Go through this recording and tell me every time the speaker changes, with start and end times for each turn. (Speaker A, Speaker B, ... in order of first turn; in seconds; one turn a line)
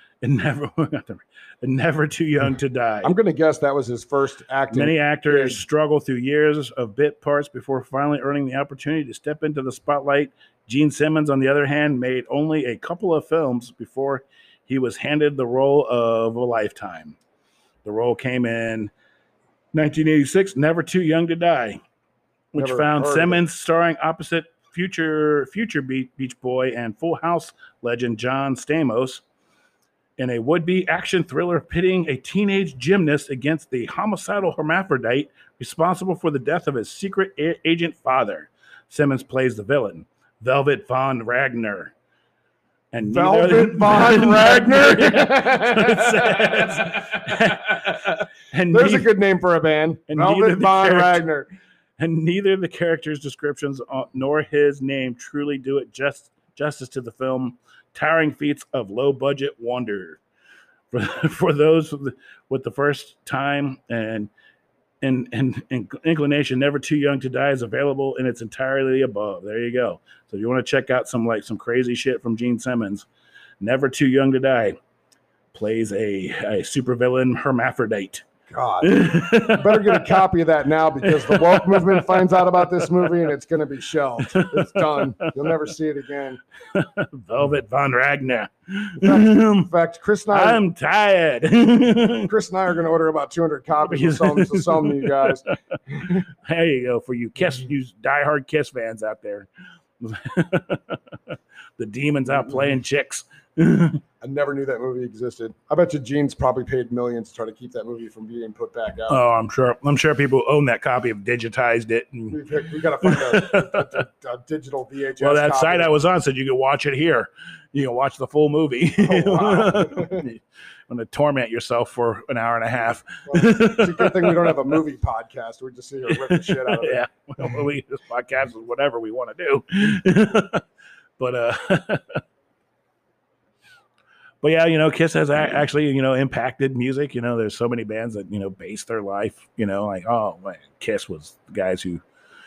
Speaker A: 0.2-3.1
Speaker B: 3.0-5.6
Speaker A: 4.7-17.2
Speaker A: 17.8-18.9
Speaker A: 19.7-21.8
Speaker A: 22.5-29.2
Speaker B: 22.5-23.4
Speaker A: 30.2-41.9
Speaker A: 42.9-49.1
Speaker B: 43.0-48.1
Speaker B: 48.7-51.5
Speaker A: 50.1-51.2
Speaker A: 52.0-60.2
Speaker A: 60.9-64.3
Speaker A: 65.0-73.1
Speaker A: 73.6-74.8
Speaker A: 75.5-78.2
Speaker B: 78.5-86.4
Speaker A: 78.8-80.1
Speaker A: 81.0-83.1
Speaker A: 84.2-85.3
Speaker A: 86.7-89.7
Speaker B: 89.0-90.6
Speaker A: 90.3-92.3
Speaker B: 92.2-96.2
Speaker A: 93.8-95.5
Speaker A: 96.0-101.0
Speaker A: 101.8-104.0
Speaker B: 104.2-109.2
Speaker A: 109.1-112.4
Speaker B: 112.3-115.9
Speaker A: 113.0-114.0
Speaker A: 115.2-124.7
Speaker B: 119.0-120.3
Speaker B: 123.3-127.0
Speaker A: 126.1-130.7
Speaker A: 131.2-132.2
Speaker A: 134.4-142.0